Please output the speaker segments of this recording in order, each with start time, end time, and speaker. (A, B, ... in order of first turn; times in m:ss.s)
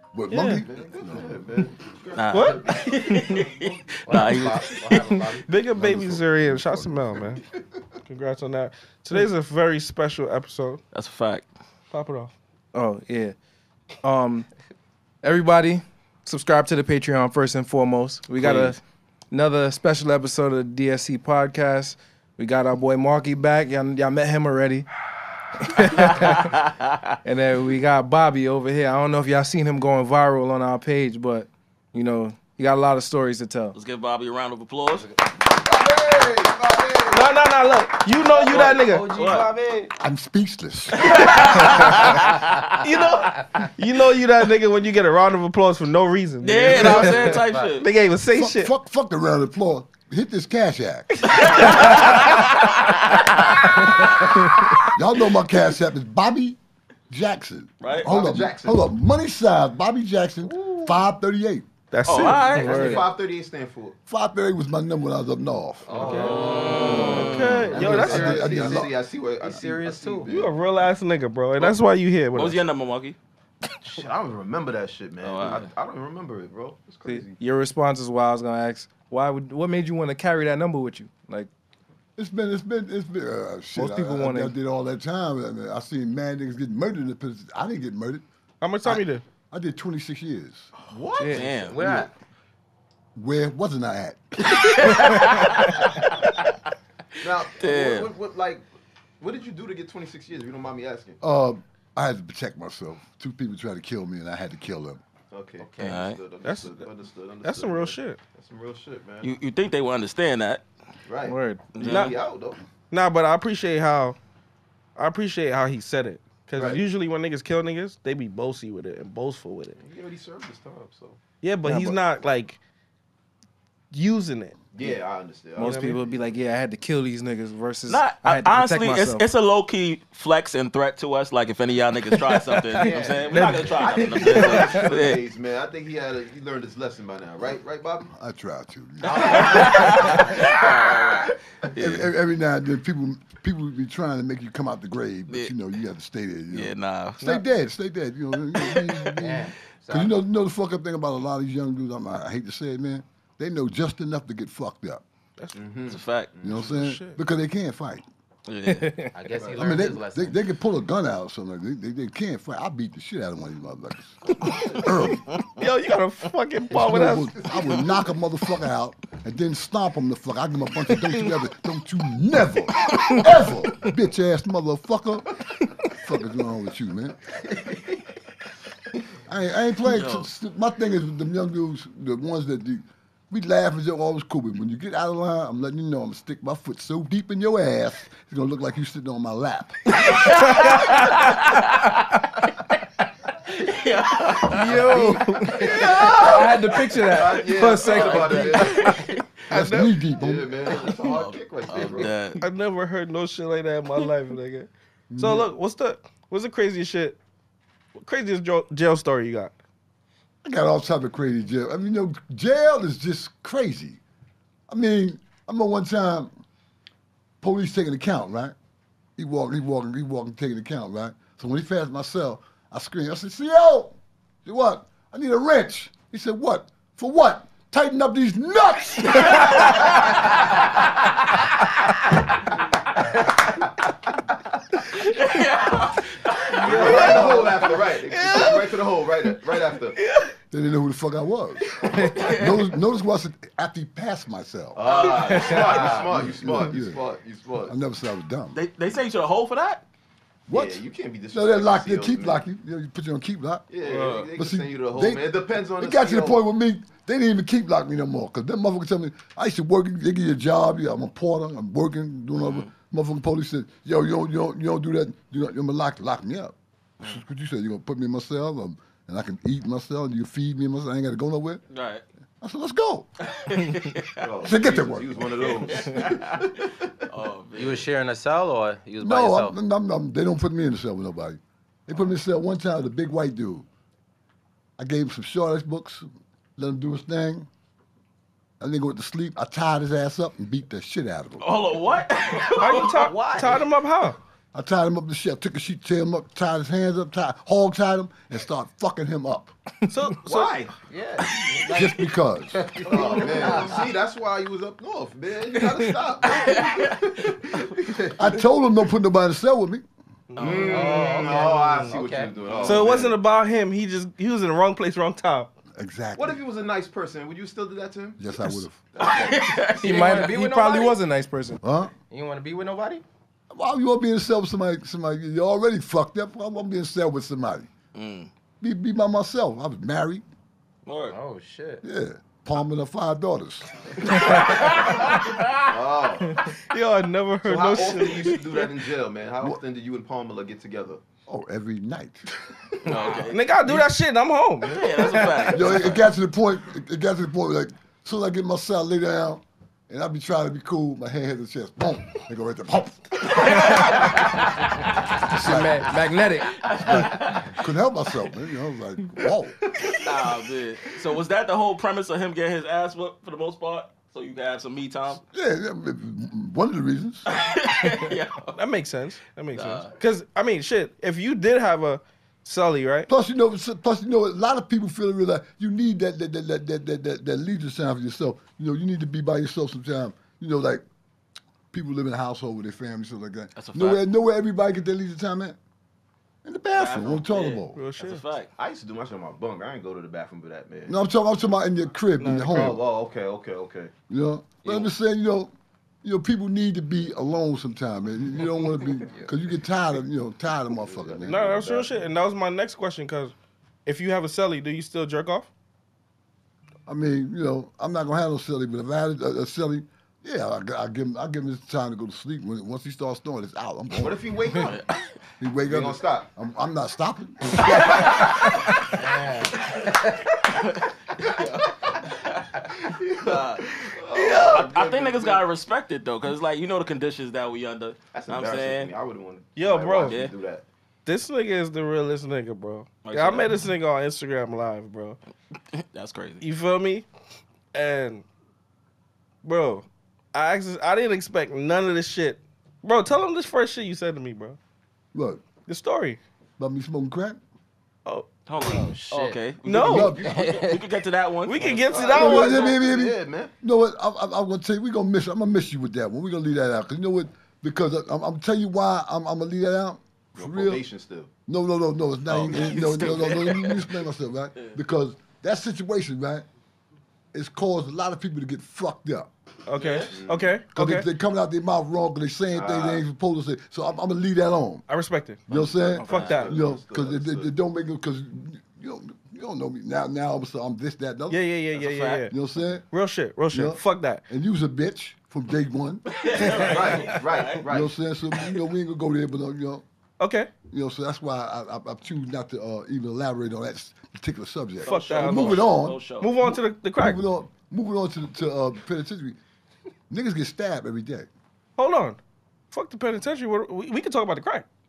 0:00.1-0:01.5 A
0:00.3-0:00.6 B
0:00.4-0:03.4 C
0:02.1-0:05.2 D
0:02.3-0:03.4 B
0:04.0-0:05.7 E
0:05.4-0:07.4 B
0:05.7-0:07.4 A
0:08.0-0:10.8 B
0:10.9-0:11.5 D
0:11.9-0:12.3 B
0:12.7-0:13.3 F
0:14.0-0:14.5 F
0:15.2-0:18.8 F
0:18.4-0:18.8 D
0:19.3-0:24.9 F
0:25.6-0:26.6 F
0:26.0-0:27.0 D
0:27.2-0:33.8 F
0:33.7-0:35.1 D
0:35.5-0:37.4 C
0:37.1-0:39.4 B
0:38.1-0:39.9 E
0:38.5-0:39.5 D
0:40.0-0:42.0 A
0:41.0-0:42.4 D
0:41.1-0:42.2 B
0:42.8-0:48.7 B
0:46.4-0:47.9 D
0:46.7-0:47.9 E
0:48.3-0:52.0 A
0:51.2-0:52.8 B
0:51.3-0:53.4 D
0:53.5-0:54.9 B
0:54.9-0:56.6 A
0:57.1-1:01.7 A
0:57.8-0:58.1 D
0:57.9-0:58.9 C
1:00.4-1:01.0 E
1:01.9-1:02.9 B
1:02.0-1:03.0 D
1:02.2-1:04.0 C
1:02.5-1:03.0 E
1:02.5-1:03.0 F
1:04.1-1:06.0 A
1:05.8-1:10.4 E
1:05.9-1:10.6 C
1:06.1-1:07.7 D
1:06.8-1:09.0 A
1:07.2-1:08.4 B
1:10.3-1:12.6 B
1:12.3-1:13.2 D
1:13.8-1:17.4 C
1:15.2-1:15.7 D
1:17.0-1:21.5 F
1:22.2-1:28.2 A
1:23.8-1:24.5 F
1:28.6-1:29.2 B
1:28.8-1:30.7 A
1:30.9-1:31.7 C
1:31.2-1:31.5 F
1:31.3-1:32.0 D
1:31.5-1:32.1 E
1:31.8-1:32.1 A
1:33.1-1:34.6 A
1:34.5-1:35.8 D
1:37.2-1:38.6 C
1:37.5-1:38.1 D
1:39.2-1:41.2 C
1:41.2-1:45.0 A
1:45.3-1:49.3 C
1:45.6-1:46.1 E
1:45.8-1:46.2 D
1:46.4-1:46.8 B
1:47.4-1:48.2 B
1:49.2-1:50.6 D
1:51.0-1:52.6 C
1:51.2-1:51.7 F
1:51.7-1:52.2 D
1:51.8-1:52.2 B
1:52.9-1:54.2 B
1:55.0-1:59.8 B
1:56.6-1:56.8 C
1:59.8-2:01.2 C
2:01.4-2:02.6 B
2:01.6-2:02.0 F
2:03.9-2:04.6 B
2:04.7-2:05.8 C
2:05.6-2:09.2 F
2:05.6-2:06.0 B
2:07.9-2:15.2 D
2:12.8-2:18.1 C
2:13.3-2:14.7 B
2:18.1-2:20.2 A
2:19.0-2:20.3 E
2:19.2-2:22.1 D
2:21.7-2:35.0 A
2:25.3-2:25.5 D
2:26.5-2:27.2 D
2:28.5-2:29.2 D
2:29.2-2:30.1 E
2:35.5-2:36.8 C
2:35.9-2:36.3 D
2:36.4-2:38.0 A
2:36.6-2:37.2 B
2:38.4-2:39.1 D
2:38.7-2:39.0 F
2:39.1-2:40.4 E
2:39.3-2:39.8 C
2:39.6-2:45.3 A
2:44.5-2:44.8 C
2:45.3-2:45.6 D
2:45.6-2:47.4 B
2:46.7-2:57.2 A
2:59.2-3:10.0 A
2:59.8-3:00.3 D
3:10.0-3:11.9 D
3:10.4-3:10.8 F
3:13.5-3:16.5 D
3:14.4-3:19.0 F
3:15.6-3:19.0 C
3:17.6-3:19.5 D
3:19.5-3:20.6 A
3:19.5-3:19.9 B
3:20.1-3:22.2 C
3:20.6-3:22.4 D
3:21.7-3:22.1 E
3:22.4-3:27.2 B
3:25.1-3:25.5 A
3:27.9-3:29.5 B
3:30.4-3:34.0 A
3:34.7-3:36.3 A
3:37.4-3:38.5 A
3:39.2-3:49.8 A
3:49.5-3:49.8 D
3:54.9-3:57.7 D
3:56.5-4:00.0 C
3:56.6-3:57.2 B
3:58.1-3:58.7 B
4:00.5-4:04.8 A
4:01.8-4:02.7 D
4:04.7-4:07.7 C
4:04.8-4:06.1 D
4:05.2-4:06.1 E
4:06.1-4:07.0 A
4:07.6-4:08.6 A
4:08.5-4:09.8 D
4:10.5-4:13.7 A
4:10.5-4:12.4 C
4:13.7-4:16.4 C
4:13.8-4:14.3 D
4:14.3-4:31.6 A
4:22.4-4:22.7 D
4:31.7-4:32.0 D
4:32.4-4:33.1 A
4:33.2-4:34.3 D
4:34.2-4:36.9 C
4:34.4-4:35.2 A
4:35.3-4:37.9 D
4:37.5-4:39.6 E
4:39.0-4:43.7 A
4:44.8-4:47.5 A
4:48.6-4:51.5 A
4:51.4-4:53.6 D
4:52.5-4:53.6 E
4:52.6-4:54.2 B
4:54.5-4:59.5 A
4:59.9-5:00.6 B
5:00.2-5:00.7 C
5:00.9-5:03.9 E
5:01.5-5:02.7 A
5:02.8-5:08.3 C
5:06.2-5:07.4 D
5:08.1-5:09.8 A
5:10.3-5:10.9 B
5:10.3-5:11.3 D
5:10.4-5:13.2 C
5:10.6-5:12.8 E
5:12.6-5:15.5 B
5:15.7-5:16.4 A
5:16.1-5:18.2 C
5:18.2-5:18.8 A
5:19.0-5:19.6 C
5:19.0-5:20.3 D
5:19.8-5:21.0 E
5:19.8-5:21.6 F
5:21.6-5:21.9 A
5:22.0-5:23.0 E
5:23.5-5:27.7 A
5:27.9-5:28.3 D
5:28.6-5:30.2 A
5:30.8-5:31.2 D
5:31.1-5:31.8 E
5:31.8-5:34.2 A
5:34.0-5:35.7 D
5:35.6-5:36.5 C
5:36.4-5:38.4 B
5:37.4-5:41.0 C
5:37.9-5:38.6 D
5:41.3-5:42.2 A
5:42.8-5:43.9 D
5:43.2-5:45.6 B
5:44.6-5:46.1 D
5:45.5-5:54.2 A
5:53.3-5:54.4 D
5:55.2-5:56.6 F
5:55.3-5:55.9 A
5:56.8-5:59.6 A
5:56.8-5:57.4 E
5:57.0-5:57.4 D
5:59.9-6:05.2 D
6:05.3-6:07.3 A
6:07.2-6:08.6 D
6:08.5-6:13.1 B
6:09.5-6:09.9 D
6:13.1-6:20.8 A
6:21.7-6:25.6 A
6:23.6-6:24.0 D
6:26.4-6:27.8 A
6:26.7-6:28.5 D
6:27.7-6:28.2 B
6:28.6-6:31.0 C
6:30.9-6:32.8 A
6:32.2-6:32.7 B
6:32.4-6:33.9 C
6:34.1-6:41.6 A
6:34.6-6:34.9 D
6:40.8-6:42.0 C
6:41.2-6:43.3 B
6:43.8-6:45.5 B
6:46.9-6:54.2 A
6:53.9-6:54.8 C
6:54.5-6:55.0 D
6:55.4-6:58.3 A
6:55.6-6:56.3 C
6:57.7-6:58.0 C
6:57.8-6:59.1 D
6:59.0-7:00.2 E
6:59.6-7:02.5 D
7:02.8-7:05.4 C
7:03.2-7:08.9 D
7:04.1-7:04.6 B
7:08.1-7:10.6 C
7:09.6-7:10.2 B
7:10.0-7:10.3 D
7:11.0-7:15.2 B
7:13.0-7:13.5 D
7:15.7-7:16.4 D
7:16.4-7:17.1 B
7:17.7-7:18.2 B
7:19.4-7:24.6 B
7:25.1-7:25.4 A
7:25.7-7:26.2 B
7:26.6-7:27.4 A
7:28.0-7:28.3 B
7:28.4-7:32.1 D
7:28.8-7:29.6 E
7:29.6-7:30.1 B
7:29.7-7:30.4 A
7:30.1-7:30.6 C
7:30.2-7:30.8 E
7:31.4-7:32.8 B
7:31.6-7:33.5 C
7:32.1-7:40.8 A
7:40.4-7:41.3 C
7:41.5-7:46.4 A
7:42.3-7:43.9 D
7:47.3-7:49.3 A
7:49.6-7:51.1 B
7:49.7-7:50.2 D
7:50.1-7:50.5 C
7:50.7-7:54.8 A
7:52.5-7:53.0 C
7:54.9-7:56.6 B
7:55.5-8:01.4 A
7:56.0-7:57.5 C
7:56.1-7:56.4 D
8:01.3-8:02.4 B
8:01.7-8:02.3 D
8:02.3-8:02.8 A
8:02.9-8:04.2 B
8:03.5-8:06.8 A
8:06.1-8:07.6 D
8:06.4-8:07.9 C
8:07.6-8:09.8 A
8:10.2-8:10.5 B
8:10.7-8:19.4 A
8:14.8-8:16.3 D
8:14.8-8:17.2 B
8:20.1-8:21.3 A
8:21.8-8:22.2 B
8:22.7-8:24.7 B